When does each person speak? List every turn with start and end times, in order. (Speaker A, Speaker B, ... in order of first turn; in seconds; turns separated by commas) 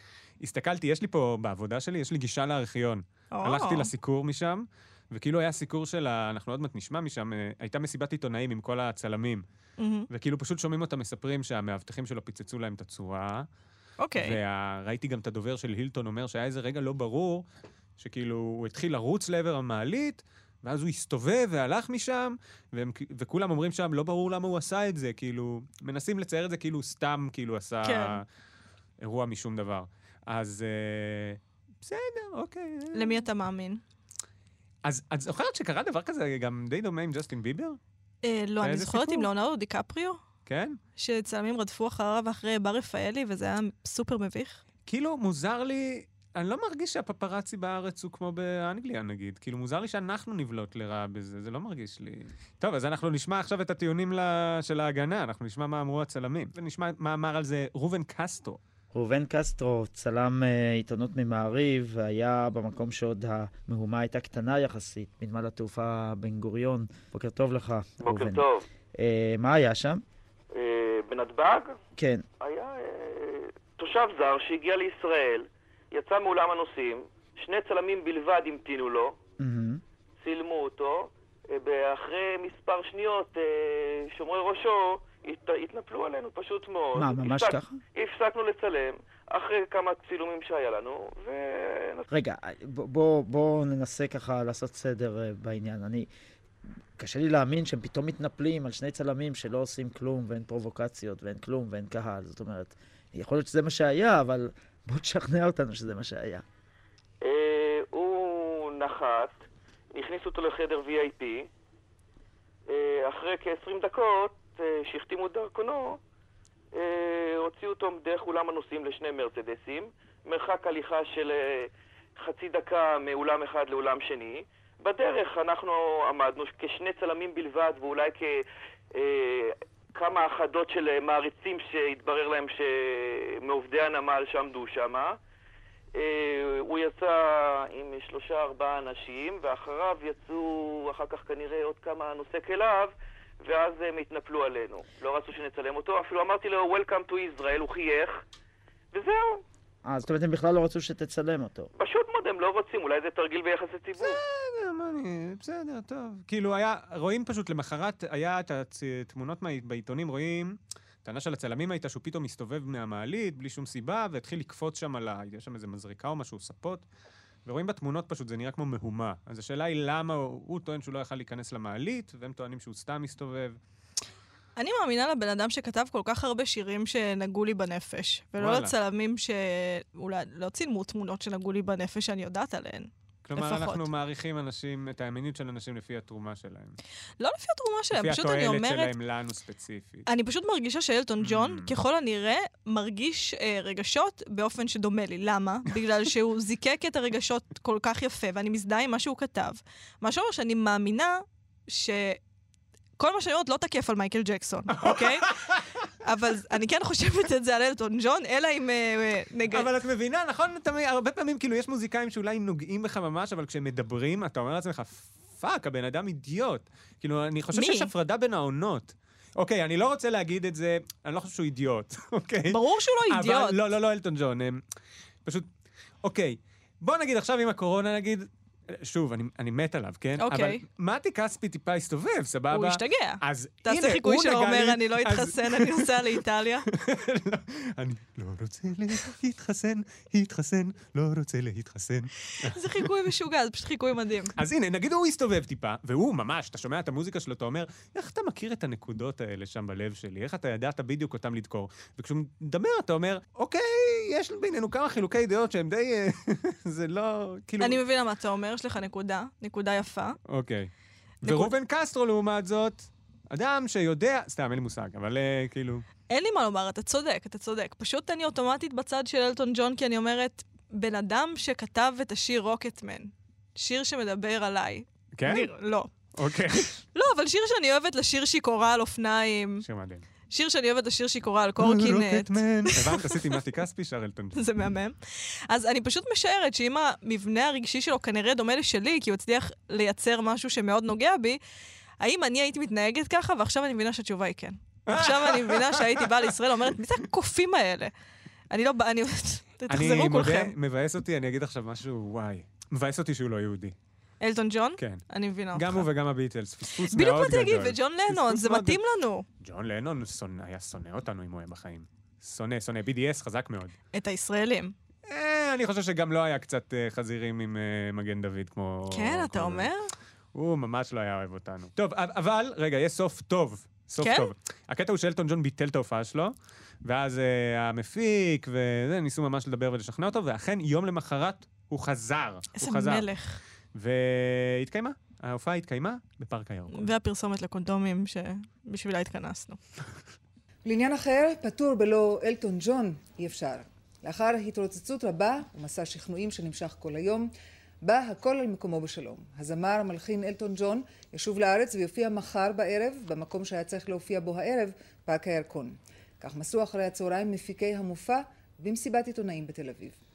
Speaker A: 0.4-9.4, Speaker B: 3.3-3.9, Speaker B: 9.8-10.1, Speaker A: 10.1-13.5, Speaker B: 14.0-14.4, Speaker A: 14.2-17.4, Speaker A: 18.0-28.2, Speaker B: 27.8-28.2, Speaker A: 29.0-33.2, Speaker B: 33.0-33.8, Speaker A: 34.8-37.8, Speaker B: 38.2-40.2, Speaker A: 38.6-39.3, Speaker A: 40.5-40.8, Speaker B: 41.0-44.6, Speaker A: 44.9-58.6, Speaker C: 58.9-70.0, Speaker D: 68.0-68.6, Speaker D: 70.5-71.8, Speaker C: 72.0-72.2, Speaker D: 72.4-79.2, Speaker C: 79.4-79.8, Speaker D: 80.2-92.1, Speaker C: 87.0-87.8, Speaker C: 92.1-96.1, Speaker C: 97.0-106.4, Speaker D: 107.2-109.4, Speaker D: 109.9-111.5, Speaker D: 112.7-116.0, Speaker D: 116.7-135.2, Speaker D: 136.0-148.2, Speaker D: 148.9-149.4, Speaker C: 149.8-151.7, Speaker D: 151.8-154.2, Speaker A: 154.0-166.8, Speaker A: 167.5-173.6, Speaker B: 174.6-183.8, Speaker A: 178.4-178.7, Speaker A: 183.2-186.8, Speaker B: 187.2-188.9, Speaker A: 187.9-190.1, Speaker B: 190.1-202.2, Speaker A: 191.2-191.7, Speaker B: 203.0-205.3, Speaker A: 204.7-205.7, Speaker B: 206.0-209.7, Speaker A: 209.5-224.6, Speaker B: 217.5-217.9, Speaker B: 222.5-223.6, Speaker A: 226.0-242.9, Speaker B: 230.2-230.6, Speaker B: 232.5-236.7, Speaker B: 242.4-244.3, Speaker A: 244.4-257.8, Speaker B: 257.6-260.2, Speaker A: 260.3-260.7, Speaker A: 261.2-265.9, Speaker B: 261.2-261.5, Speaker B: 266.1-275.9, Speaker A: 275.1-275.5, Speaker A: 276.1-276.8, Speaker B: 276.9-279.6, Speaker A: 279.6-280.1, Speaker B: 280.3-283.2, Speaker A: 281.6-284.4, Speaker B: 284.4-291.4, Speaker B: 292.0-297.9, Speaker A: 294.9-296.1, Speaker B: 298.5-300.5, Speaker A: 299.7-303.8, Speaker B: 304.2-305.9, Speaker A: 304.8-308.8, Speaker B: 306.9-309.3, Speaker A: 309.4-313.8, Speaker B: 313.9-314.8, Speaker A: 315.1-319.7, Speaker B: 318.9-319.9, Speaker A: 320.3-333.1, Speaker B: 324.0-324.3, Speaker B: 332.6-333.4, Speaker A: 333.8-336.9, Speaker B: 336.7-339.6, Speaker E: 340.6-347.3, Speaker E: 347.8-359.9